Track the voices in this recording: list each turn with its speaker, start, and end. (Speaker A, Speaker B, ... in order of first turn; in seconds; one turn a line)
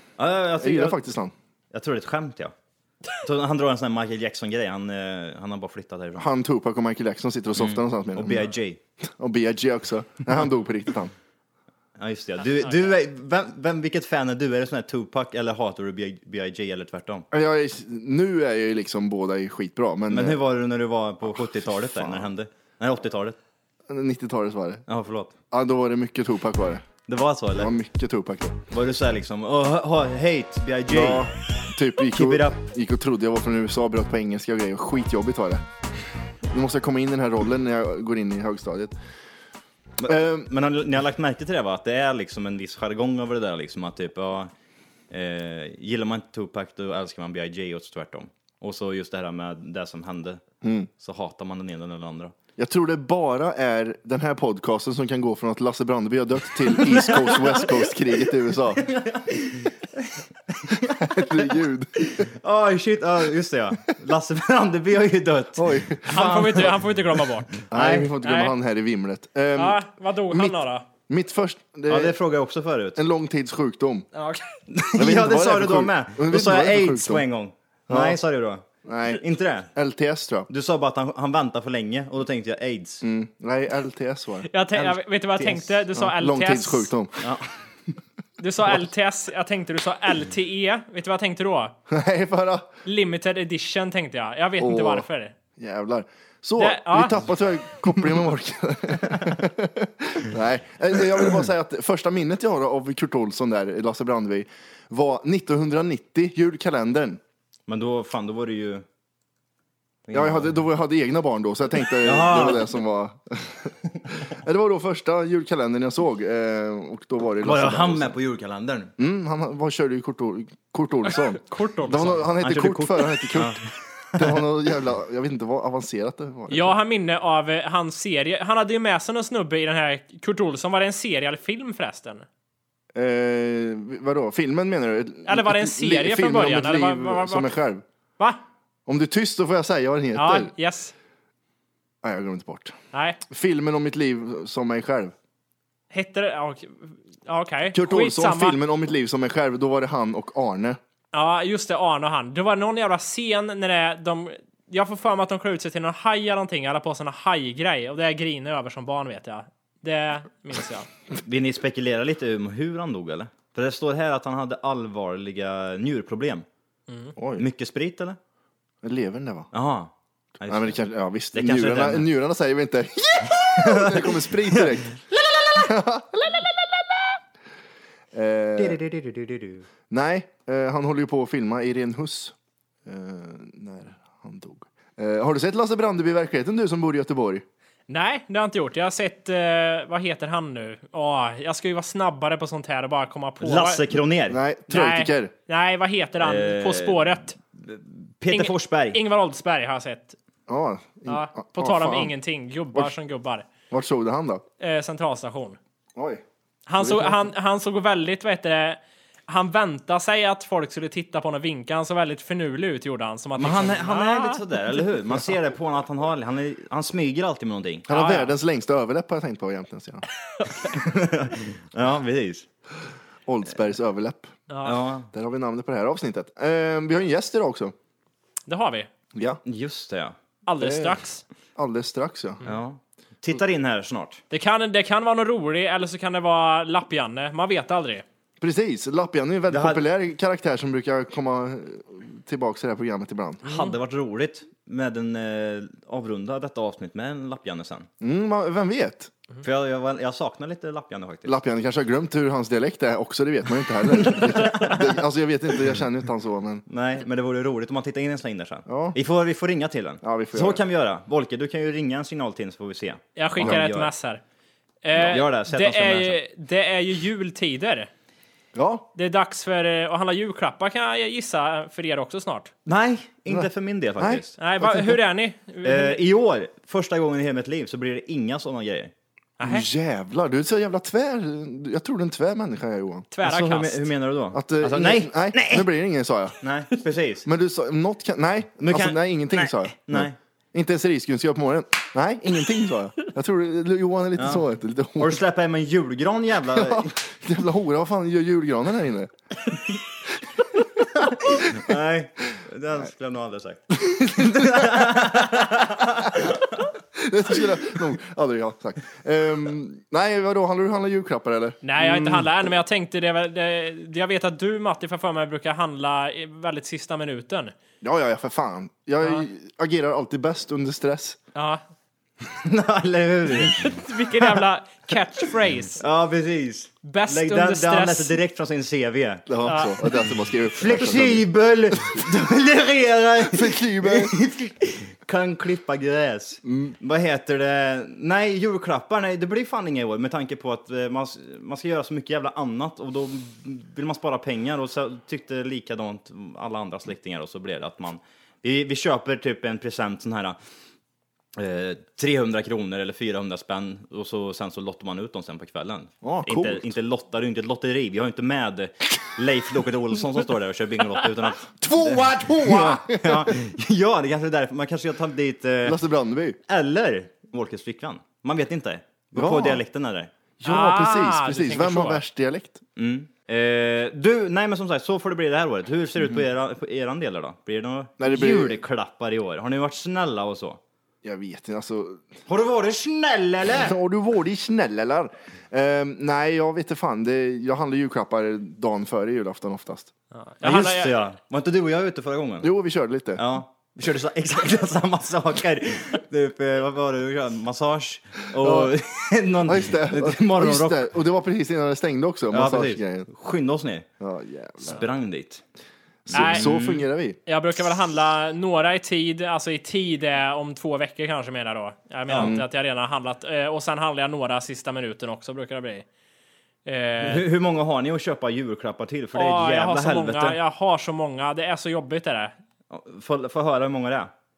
Speaker A: 0.2-1.0
Speaker B: 0.6-1.3
Speaker A: 1.7-2.5
Speaker A: 3.2-6.3
Speaker B: 6.2-8.5
Speaker A: 7.6-8.8
Speaker B: 9.2-11.1
Speaker A: 12.0-17.3
Speaker B: 17.3-20.4
Speaker A: 20.1-23.4
Speaker B: 21.9-22.3
Speaker B: 23.9-24.8
Speaker A: 24.9-25.3
Speaker B: 25.5-26.9
Speaker A: 27.1-27.7
Speaker B: 27.5-28.6
Speaker A: 28.7-31.3
Speaker B: 30.9-35.6
Speaker A: 32.1-32.6
Speaker B: 36.5-38.9
Speaker A: 40.0-44.5
Speaker B: 40.0-40.5
Speaker A: 45.1-50.4
Speaker B: 50.6-50.9
Speaker A: 51.0-52.3
Speaker B: 52.6-58.8
Speaker A: 56.7-57.9
Speaker A: 58.8-66.8
Speaker B: 61.0-62.3
Speaker B: 65.5-66.7
Speaker C: 66.1-67.6
Speaker A: 67.6-68.1
Speaker B: 67.7-70.5
Speaker C: 68.2-68.5
Speaker C: 69.5-70.8
Speaker B: 71.1-72.2
Speaker A: 71.9-73.0
Speaker B: 73.0-74.1
Speaker C: 74.1-74.5
Speaker A: 74.7-79.7
Speaker B: 75.0-77.2
Speaker B: 77.9-78.2
Speaker B: 78.8-79.2
Speaker B: 79.7-80.5
Speaker A: 80.5-83.0
Speaker B: 83.0-84.5
Speaker C: 84.5-86.9
Speaker B: 85.4-87.2
Speaker A: 87.2-87.5
Speaker C: 88.4-91.7
Speaker B: 91.9-92.7
Speaker C: 92.8-95.3
Speaker B: 94.6-95.0
Speaker B: 95.6-107.2
Speaker C: 96.6-97.2
Speaker A: 107.7-108.8
Speaker A: 110.1-110.5
Speaker B: 110.1-118.2
Speaker A: 112.0-112.7
Speaker A: 117.4-118.9
Speaker B: 119.0-123.6
Speaker C: 121.4-122.2
Speaker A: 122.2-123.6
Speaker B: 124.2-126.7
Speaker C: 126.5-132.3
Speaker B: 132.9-137.8
Speaker C: 135.2-137.5
Speaker B: 138.8-140.5
Speaker C: 140.1-140.9
Speaker B: 142.0-142.7
Speaker C: 142.9-143.2
Speaker B: 143.3-145.1
Speaker C: 145.9-148.6
Speaker B: 147.7-150.8
Speaker C: 151.1-160.9
Speaker A: 161.2-166.4
Speaker C: 166.9-167.1
Speaker B: 167.2-167.4
Speaker A: 167.4-168.2
Speaker B: 168.8-169.5
Speaker A: 169.5-170.7
Speaker B: 170.5-175.0
Speaker A: 171.3-172.1
Speaker A: 173.6-175.7
Speaker B: 175.5-176.8
Speaker B: 178.1-178.8
Speaker A: 178.6-179.7
Speaker B: 179.9-182.3
Speaker B: 182.8-187.4
Speaker C: 187.9-193.8
Speaker A: 193.4-194.4
Speaker B: 194.3-195.3
Speaker C: 194.7-197.3
Speaker A: 196.2-199.0
Speaker C: 198.3-200.2
Speaker B: 200.5-202.1
Speaker C: 201.1-203.4
Speaker B: 203.7-204.4
Speaker C: 204.6-205.6
Speaker B: 205.9-206.2
Speaker C: 206.7-214.4
Speaker B: 206.8-207.2
Speaker A: 213.4-217.9
Speaker B: 217.9-220.0
Speaker C: 217.9-218.3
Speaker A: 220.7-222.4
Speaker B: 223.2-224.4
Speaker A: 224.6-225.1
Speaker B: 225.1-227.7
Speaker C: 228.5-228.9
Speaker B: 229.1-229.4
Speaker A: 229.4-230.1
Speaker C: 230.4-231.2
Speaker B: 230.6-231.0
Speaker B: 231.6-232.4
Speaker A: 232.4-234.2
Speaker C: 234.3-238.0
Speaker B: 238.4-243.4
Speaker A: 239.5-239.8
Speaker A: 243.4-247.9
Speaker B: 248.0-249.1
Speaker A: 249.4-251.4
Speaker B: 251.2-256.6
Speaker A: 253.9-255.0
Speaker A: 256.7-263.9
Speaker B: 258.7-258.9
Speaker B: 260.0-260.6
Speaker C: 263.1-264.2
Speaker B: 263.4-263.6
Speaker C: 264.8-267.9
Speaker A: 265.0-266.2
Speaker B: 268.5-268.9
Speaker C: 268.9-272.5
Speaker A: 272.6-274.3
Speaker B: 273.3-275.0
Speaker C: 274.4-276.0
Speaker A: 275.6-278.9
Speaker C: 279.4-279.7
Speaker B: 279.4-283.1
Speaker C: 283.1-283.8
Speaker A: 283.2-285.7
Speaker B: 284.3-286.4
Speaker A: 286.4-287.3
Speaker B: 287.2-295.2
Speaker A: 288.6-290.2
Speaker A: 294.2-294.4
Speaker A: 295.0-297.0
Speaker B: 296.6-299.1
Speaker A: 299.5-299.8
Speaker A: 301.1-306.3
Speaker B: 301.2-301.7
Speaker B: 303.7-306.4
Speaker B: 306.9-312.3
Speaker C: 311.6-317.5
Speaker B: 317.8-321.2
Speaker C: 321.3-321.6
Speaker A: 322.4-323.6
Speaker C: 323.5-325.8
Speaker A: 325.8-329.3
Speaker C: 326.8-328.2
Speaker B: 329.3-332.1
Speaker C: 329.4-329.7
Speaker A: 330.5-350.4
Speaker B: 333.2-334.1
Speaker B: 336.4-336.7
Speaker A: 351.3-365.8
Speaker B: 356.0-356.7
Speaker B: 361.6-363.3
Speaker B: 365.6-366.4
Speaker A: 366.5-370.1
Speaker B: 369.1-369.6
Speaker B: 370.4-372.6
Speaker C: 370.4-372.0
Speaker A: 372.8-380.6
Speaker B: 378.0-378.6
Speaker B: 381.0-382.1
Speaker A: 382.3-383.8
Speaker B: 383.5-389.9
Speaker C: 390.1-390.9
Speaker A: 390.4-392.5
Speaker B: 392.4-393.2
Speaker A: 393.1-400.9
Speaker B: 398.4-398.7
Speaker B: 399.4-403.1
Speaker A: 402.3-403.9
Speaker B: 404.0-404.8
Speaker A: 404.6-405.4
Speaker B: 406.1-407.2
Speaker A: 406.1-406.9
Speaker C: 406.1-406.4
Speaker C: 407.3-415.8
Speaker A: 412.1-412.4
Speaker B: 412.2-412.4
Speaker C: 416.6-417.2
Speaker A: 417.0-420.4
Speaker C: 419.1-422.3
Speaker A: 422.7-424.1